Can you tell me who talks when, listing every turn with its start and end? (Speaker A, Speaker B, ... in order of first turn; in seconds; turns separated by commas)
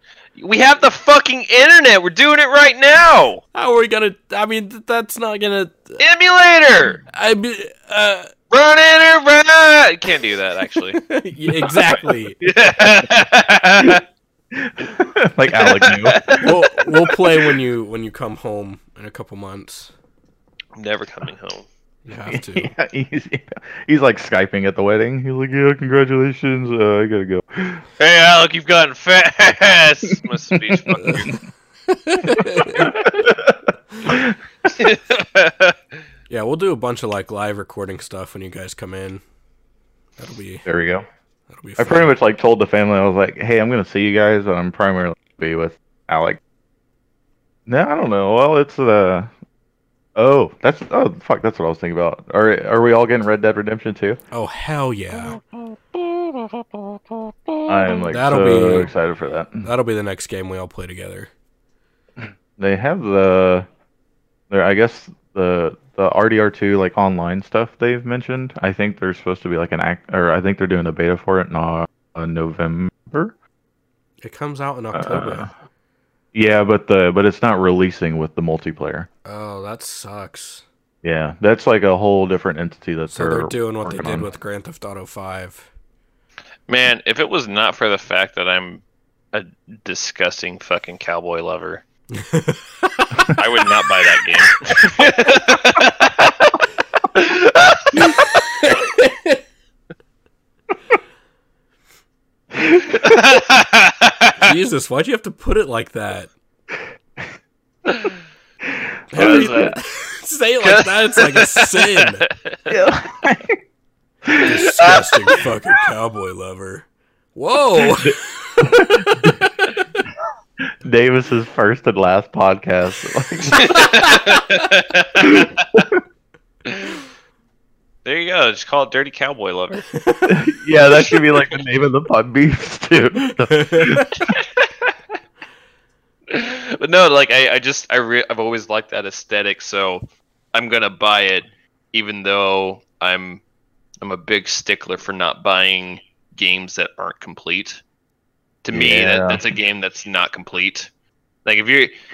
Speaker A: 0.4-3.4, Speaker B: 3.5-6.0, Speaker A: 6.0-7.0, Speaker B: 7.1-8.3, Speaker A: 8.5-11.0, Speaker B: 11.0-12.4, Speaker A: 11.6-14.0, Speaker C: 14.5-16.4, Speaker A: 15.5-17.2, Speaker B: 16.4-19.9, Speaker A: 20.8-21.6, Speaker B: 22.1-22.7, Speaker C: 22.3-27.8, Speaker A: 28.0-31.4, Speaker C: 30.1-31.3, Speaker B: 31.9-32.9, Speaker C: 32.4-34.4, Speaker A: 34.7-35.8, Speaker B: 36.3-39.2, Speaker B: 40.2-40.6, Speaker C: 40.6-41.0, Speaker B: 41.5-42.1, Speaker C: 41.8-46.4, Speaker C: 47.7-49.3, Speaker C: 50.1-54.2, Speaker B: 54.3-55.4, Speaker A: 55.1-58.0, Speaker C: 57.7-59.7, Speaker B: 58.1-58.9, Speaker B: 59.6-61.3, Speaker C: 62.2-63.7, Speaker C: 64.5-73.3, Speaker B: 74.2-75.5, Speaker C: 74.9-75.5, Speaker C: 76.3-79.1, Speaker B: 79.2-80.6, Speaker C: 81.0-84.3, Speaker B: 83.1-85.7, Speaker A: 86.7-91.8, Speaker B: 92.1-92.7, Speaker A: 93.2-96.5, Speaker A: 97.1-98.3, Speaker B: 97.9-99.4, Speaker C: 102.6-103.0, Speaker A: 102.9-104.3, Speaker B: 104.4-106.3, Speaker B: 109.1-112.2, Speaker C: 109.1-109.7, Speaker A: 109.2-109.7, Speaker A: 110.6-112.7, Speaker C: 112.7-113.6, Speaker C: 114.2-114.5, Speaker B: 114.4-119.8, Speaker C: 118.0-119.4, Speaker C: 120.8-123.9, Speaker A: 123.6-125.8, Speaker B: 123.7-124.4, Speaker C: 125.2-126.0, Speaker A: 128.0-129.9, Speaker B: 129.9-130.4, Speaker C: 130.3-134.3, Speaker B: 133.5-134.1, Speaker A: 134.3-134.9, Speaker A: 136.3-140.0, Speaker A: 140.5-143.4, Speaker A: 144.0-147.8, Speaker A: 148.6-150.9, Speaker C: 148.7-149.4, Speaker A: 151.4-151.9